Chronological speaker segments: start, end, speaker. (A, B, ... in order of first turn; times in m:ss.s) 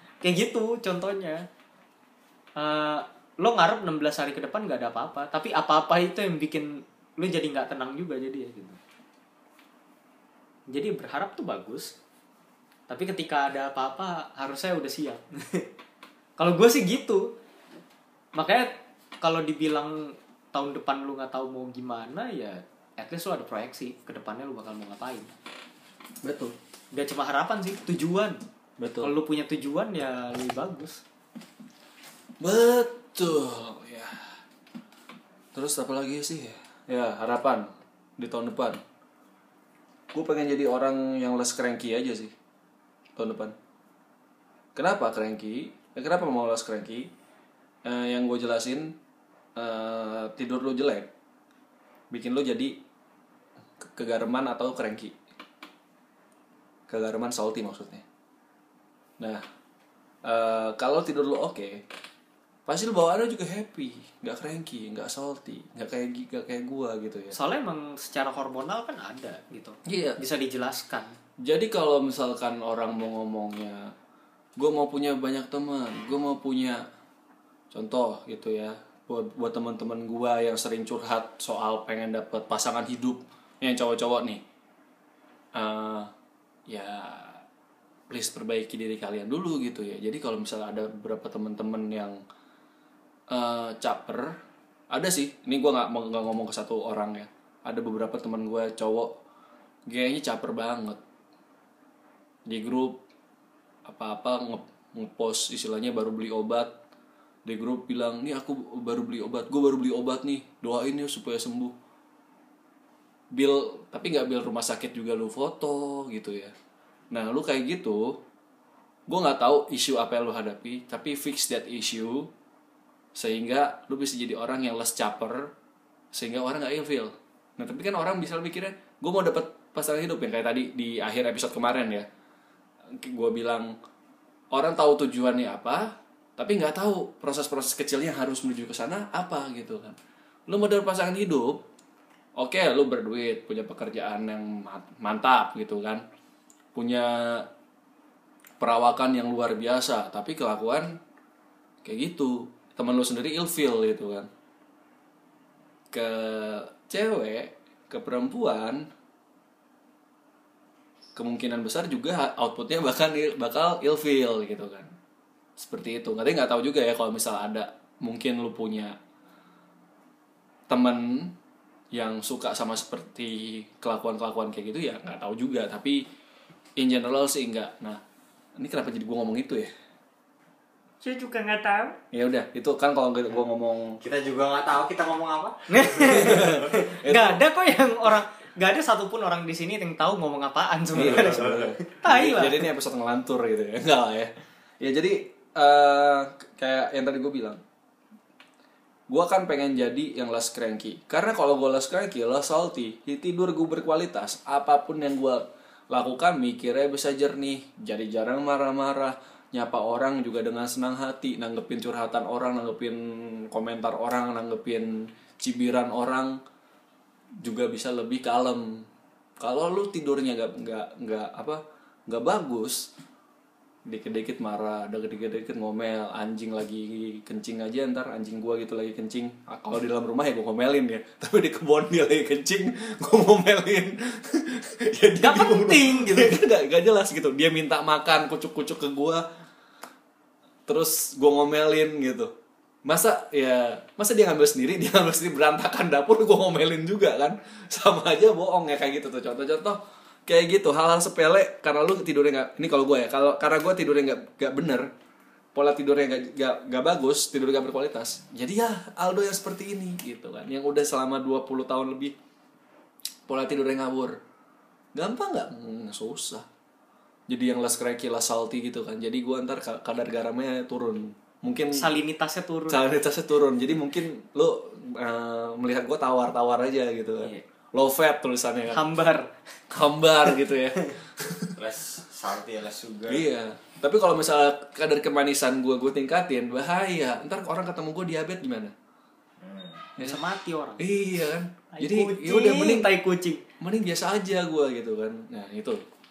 0:00.2-0:01.4 A
0:02.6-0:08.8 A
0:10.7-0:12.0 A
0:12.9-0:15.7 A
0:16.4-0:17.3 A
0:18.4-0:25.3 A
0:26.2-0:26.6 B
0:26.9-0:28.4 A
0:28.8-0:29.1 B
0:29.0-0:31.0 A
0:32.4-0:34.3 B
0:35.5-0:38.8 B
0:40.1-0:42.3 B
0:43.2-0:43.6 B
0:44.8-0:47.1 B
0:47.8-0:49.0 B
0:49.6-0:51.1 B
0:52.1-0:52.8 B
0:53.8-0:55.1 B
0:56.9-0:58.0 B
1:00.2-1:01.8 B
1:02.7-1:07.4 B
1:07.3-1:11.2 A
1:09.9-1:10.2 B
1:11.4-1:13.9 B
1:14.6-1:16.8 B
1:17.7-1:24.4 B
1:25.6-1:26.1 B
1:26.7-1:27.4 B
1:28.1-1:32.2 B
1:33.3-1:34.4 B
1:34.9-1:39.2 B
1:39.9-1:41.0 B
1:42.5-1:43.0 B
1:43.8-1:46.8 B
1:47.4-1:51.7 B
1:53.3-1:56.5 B
1:57.1-1:58.2 B
1:59.1-2:02.3 B
2:03.2-2:05.5 B
2:06.1-2:12.1 B
2:13.0-2:13.7 B
2:14.5-2:21.6 B
2:22.4-2:26.0 B
2:26.8-2:27.5 B
2:28.6-2:31.0 B
2:31.8-2:34.3 B
2:35.9-2:38.9 B
2:41.2-2:44.9 B
2:45.6-2:49.0 B
2:50.7-2:51.4 B
2:51.9-2:56.0 B
2:56.8-2:58.0 B
2:58.6-2:59.7 B
3:01.0-3:02.0 A
3:02.1-3:04.0 B
3:04.0-3:06.8 C
3:05.7-3:12.7 A
3:06.0-3:07.4 B
3:11.0-3:17.6 B
3:11.2-3:11.7 C
3:19.1-3:36.4 B
3:37.4-3:38.9 B
3:39.4-3:42.9 B
3:43.9-3:59.2 B
3:55.2-3:56.4 A
4:00.7-4:02.3 B
4:02.8-4:14.9 B
4:15.6-4:22.1 B
4:23.3-4:24.2 B
4:24.9-4:26.5 B
4:27.3-4:31.9 B
4:31.7-4:33.0 A
4:32.7-4:38.8 B
4:38.7-4:39.3 A
4:39.7-4:41.6 B
4:41.6-4:43.3 C
4:43.1-4:48.7 B
4:49.4-4:49.9 C
4:50.0-4:50.8 A
4:50.8-4:52.9 B
4:51.7-4:53.4 A
4:53.6-4:55.8 B